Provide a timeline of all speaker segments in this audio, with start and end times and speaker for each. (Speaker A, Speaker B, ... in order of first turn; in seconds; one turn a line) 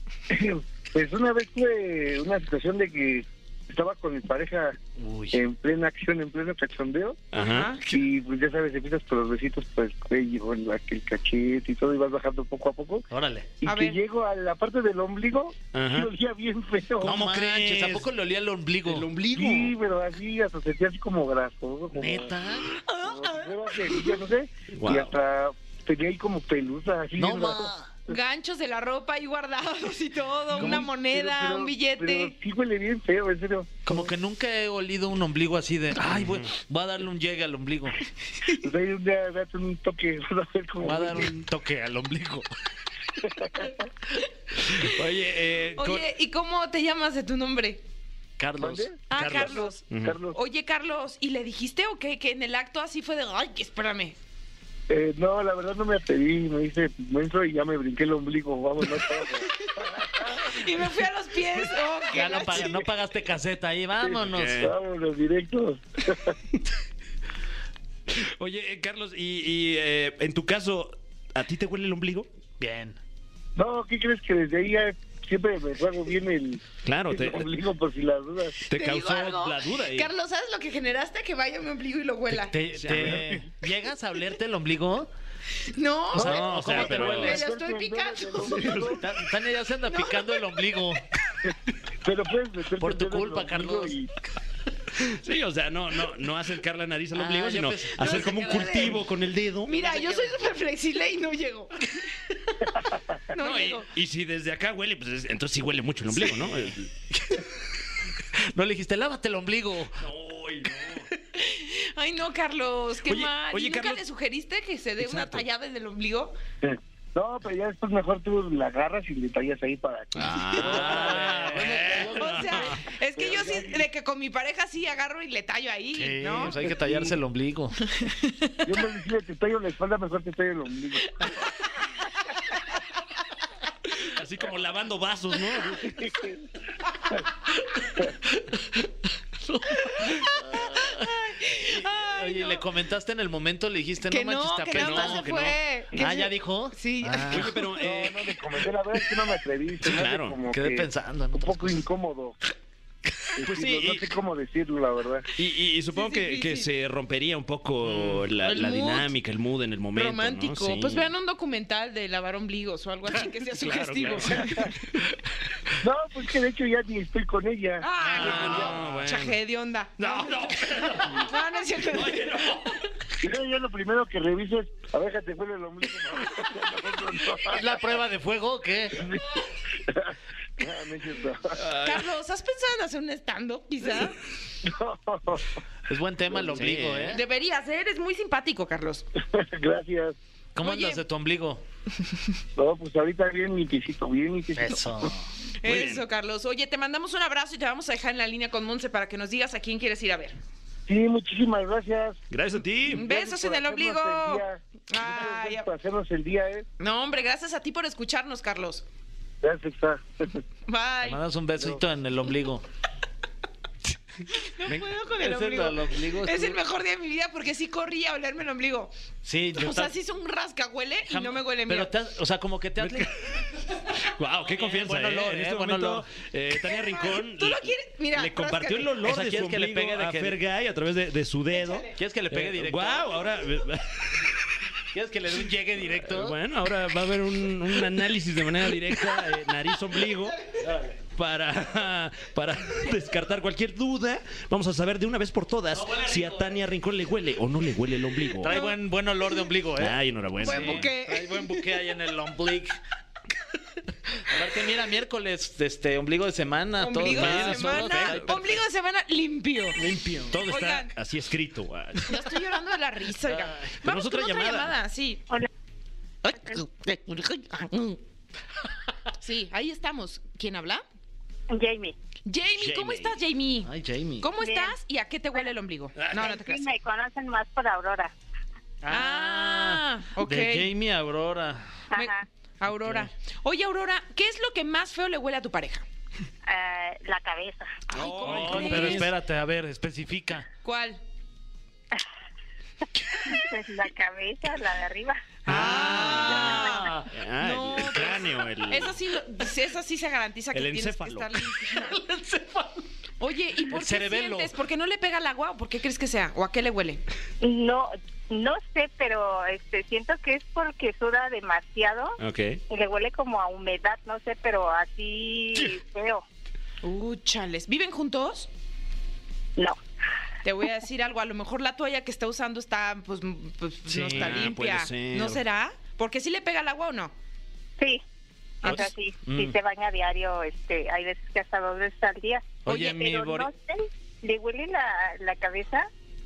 Speaker A: 0.3-4.8
Speaker B: 5.0-5.4
Speaker A: 5.3-7.2
Speaker C: 7.3-7.7
Speaker D: 7.4-7.8
Speaker A: 7.8-13.1
Speaker B: 13.1-13.5
Speaker A: 13.6-17.2
Speaker D: 13.7-14.0
Speaker C: 15.7-16.1
Speaker C: 17.0-18.1
Speaker B: 17.0-19.1
Speaker C: 18.8-19.7
Speaker A: 19.3-22.3
Speaker B: 21.9-22.7
Speaker D: 22.6-24.2
Speaker A: 23.0-27.7
Speaker C: 24.7-25.1
Speaker B: 27.2-27.9
Speaker D: 28.1-32.3
Speaker A: 30.5-34.1
Speaker B: 30.6-30.9
Speaker B: 33.8-38.0
Speaker C: 36.0-36.5
Speaker D: 38.4-38.7
Speaker A: 38.6-41.3
Speaker B: 40.8-42.5
Speaker A: 43.2-43.9
Speaker D: 44.7-44.9
Speaker C: 44.7-46.0
Speaker D: 45.8-47.8
Speaker B: 48.4-49.6
Speaker A: 48.6-50.4
Speaker D: 49.1-54.1
Speaker C: 49.9-50.2
Speaker A: 54.9-60.7
Speaker D: 59.4-62.8
Speaker B: 62.1-64.7
Speaker A: 64.0-66.3
Speaker C: 64.2-64.7
Speaker C: 68.1-72.3
Speaker B: 72.6-73.0
Speaker A: 73.5-78.6
Speaker C: 76.8-77.5
Speaker C: 78.7-80.1
Speaker D: 78.7-82.5
Speaker B: 82.3-85.1
Speaker C: 82.7-83.3
Speaker A: 82.9-83.4
Speaker D: 85.6-89.0
Speaker B: 86.1-87.4
Speaker C: 86.2-87.4
Speaker A: 86.2-89.1
Speaker B: 88.6-91.0
Speaker D: 89.8-90.4
Speaker A: 92.0-94.1
Speaker B: 92.8-93.9
Speaker C: 94.9-100.0
Speaker B: 97.1-98.9
Speaker D: 98.0-99.0
Speaker D: 99.7-101.8
Speaker B: 100.0-100.2
Speaker A: 102.7-103.2
Speaker D: 103.3-103.9
Speaker C: 103.3-106.9
Speaker B: 107.2-107.4
Speaker B: 108.5-110.0
Speaker C: 110.0-111.1
Speaker D: 111.3-116.3
Speaker C: 113.0-114.0
Speaker C: 115.0-115.4
Speaker A: 116.6-123.8
Speaker C: 120.1-122.8
Speaker B: 120.6-122.2
Speaker D: 122.1-126.6
Speaker B: 125.9-127.8
Speaker A: 126.4-127.2
Speaker D: 127.8-128.7
Speaker A: 128.6-131.3
Speaker D: 131.2-131.8
Speaker C: 134.0-136.2
Speaker A: 135.8-136.4
Speaker B: 139.6-141.0
Speaker D: 139.9-142.6
Speaker B: 142.1-147.6
Speaker D: 144.0-147.6
Speaker C: 144.7-145.6
Speaker C: 147.3-148.3
Speaker A: 147.8-152.4
Speaker C: 149.8-150.4
Speaker B: 150.5-151.8
Speaker A: 153.3-155.3
Speaker C: 153.4-154.1
Speaker C: 155.4-161.1
Speaker D: 155.9-156.7
Speaker D: 158.4-159.1
Speaker D: 159.9-164.6
Speaker C: 163.5-164.7
Speaker A: 164.3-164.7
Speaker A: 165.8-168.5
Speaker D: 167.8-172.4
Speaker B: 168.0-168.9
Speaker C: 168.1-169.4
Speaker C: 170.0-173.0
Speaker A: 173.2-177.8
Speaker B: 177.4-179.1
Speaker A: 178.9-181.6
Speaker C: 181.5-182.1
Speaker D: 181.8-184.2
Speaker A: 184.6-185.5
Speaker B: 185.9-187.2
Speaker A: 186.3-186.7
Speaker C: 186.5-187.2
Speaker D: 187.1-189.1
Speaker A: 189.2-190.2
Speaker B: 190.5-191.6
Speaker D: 190.6-191.0
Speaker A: 192.6-195.1
Speaker B: 194.5-195.3
Speaker D: 195.6-200.4
Speaker C: 195.6-196.0
Speaker A: 200.9-202.2
Speaker C: 202.3-203.1
Speaker A: 202.9-206.7
Speaker D: 202.9-205.7
Speaker D: 206.8-208.8
Speaker A: 209.4-210.4
Speaker D: 210.7-211.2
Speaker B: 211.0-212.6
Speaker D: 214.3-218.9
Speaker B: 215.2-216.6
Speaker B: 219.2-219.9
Speaker D: 219.5-221.9
Speaker B: 221.1-223.1
Speaker C: 222.8-234.6
Speaker B: 224.5-226.0
Speaker D: 226.6-229.0
Speaker B: 229.0-230.4
Speaker D: 231.6-231.9
Speaker B: 231.9-233.1
Speaker B: 234.9-236.3
Speaker C: 235.8-240.5
Speaker B: 240.6-241.0
Speaker C: 241.1-248.6
Speaker B: 245.7-246.5
Speaker B: 248.4-252.8
Speaker D: 248.5-248.8
Speaker C: 249.8-250.9
Speaker D: 250.4-251.7
Speaker B: 254.1-258.6
Speaker D: 256.8-259.8
Speaker C: 257.0-258.6
Speaker B: 259.8-260.4
Speaker C: 260.2-262.4
Speaker D: 260.5-260.9
Speaker D: 262.0-265.2
Speaker C: 263.3-264.7
Speaker D: 266.2-268.0
Speaker D: 269.1-270.8
Speaker E: 271.5-271.9
Speaker D: 272.2-276.7
Speaker C: 272.6-273.2
Speaker B: 273.6-274.3
Speaker E: 274.4-274.7
Speaker E: 276.1-278.1
Speaker B: 278.8-281.7
Speaker D: 278.9-280.7
Speaker E: 281.9-282.2
Speaker D: 281.9-285.9
Speaker B: 282.8-283.1
Speaker E: 286.4-287.8
Speaker D: 287.9-289.1
Speaker C: 287.9-289.1
Speaker B: 288.2-290.5
Speaker D: 290.6-291.0
Speaker E: 293.1-295.5
Speaker C: 295.4-299.0
Speaker D: 295.5-301.9
Speaker B: 295.5-297.1
Speaker C: 300.5-301.5
Speaker B: 301.6-302.9
Speaker D: 303.2-307.0
Speaker B: 303.6-304.5
Speaker E: 307.4-312.2
Speaker C: 312.2-312.6
Speaker E: 312.7-316.2
Speaker D: 316.8-318.5
Speaker D: 320.4-327.1
Speaker B: 323.9-324.5
Speaker C: 324.0-325.4
Speaker D: 328.6-328.9
Speaker E: 328.6-335.9
Speaker B: 328.6-329.6
Speaker B: 332.6-333.5